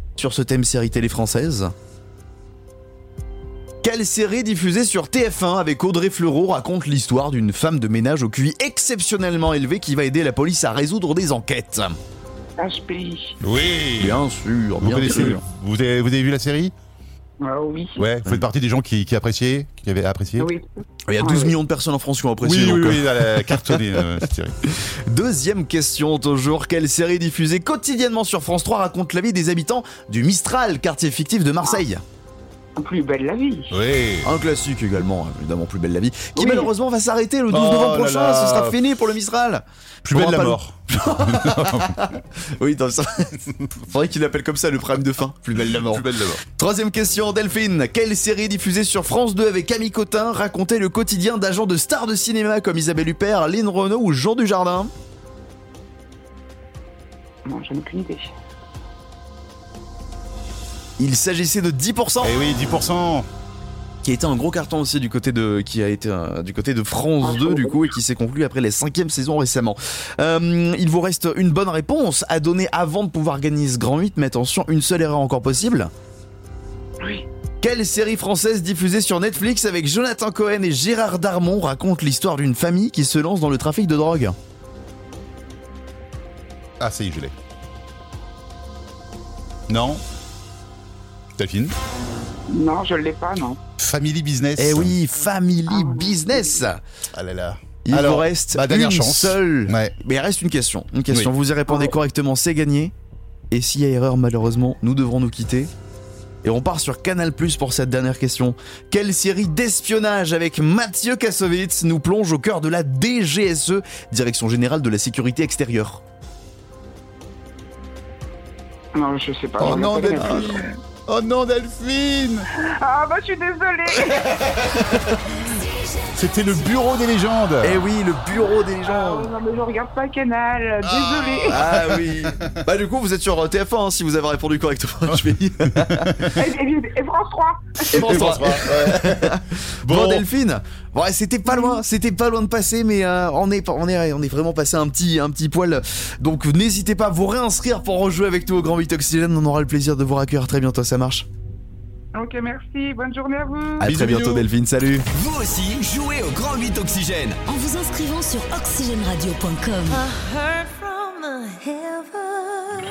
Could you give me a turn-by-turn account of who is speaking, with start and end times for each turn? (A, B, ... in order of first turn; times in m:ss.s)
0:00.2-0:01.7 A
0:03.8-0:12.0 A
0:12.6-0:13.4 B
0:13.4-0:14.2 C
0:14.0-0:15.4 A
0:14.8-0:16.7 C
0:17.4-0:18.1 B
0:18.0-0:20.5 C
0:20.4-0:21.6 B
0:21.1-0:23.8 A
0:22.4-0:24.6 C
0:24.7-0:32.0 A
0:32.8-0:33.8 B
0:33.7-0:34.3 C
0:34.2-0:54.9 A
0:36.4-0:36.7 B
0:37.5-0:38.8 C
0:40.0-0:42.2 C
0:45.6-0:46.4 C
0:57.5-0:58.3 B
1:01.0-1:02.4 A
1:02.2-1:03.3 C
1:04.0-1:15.9 A
1:07.2-1:07.9 B
1:17.6-1:24.4 A
1:26.8-1:27.3 C
1:29.7-1:30.0 C
1:31.4-1:31.7 C
1:32.5-1:33.6 B
1:33.8-1:35.0 C
1:34.6-1:36.8 A
1:35.7-1:36.6 B
1:37.1-1:40.0 C
1:37.8-1:42.9 A
1:43.5-1:45.7 A
1:46.4-1:56.0 A
1:59.0-2:00.7 B
1:59.6-2:02.5 C
2:02.6-2:05.0 B
2:06.1-2:07.8 C
2:07.6-2:09.3 A
2:08.8-2:11.6 B
2:10.8-2:12.6 C
2:11.5-2:16.3 A
2:15.1-2:16.4 C
2:16.4-2:18.3 B
2:17.9-2:31.3 A
2:17.9-2:20.3 C
2:21.5-2:21.8 B
2:32.1-2:33.9 B
2:33.8-2:35.1 A
2:33.8-2:34.5 C
2:35.1-2:37.4 D
2:37.5-2:40.3 E
2:41.1-2:42.3 E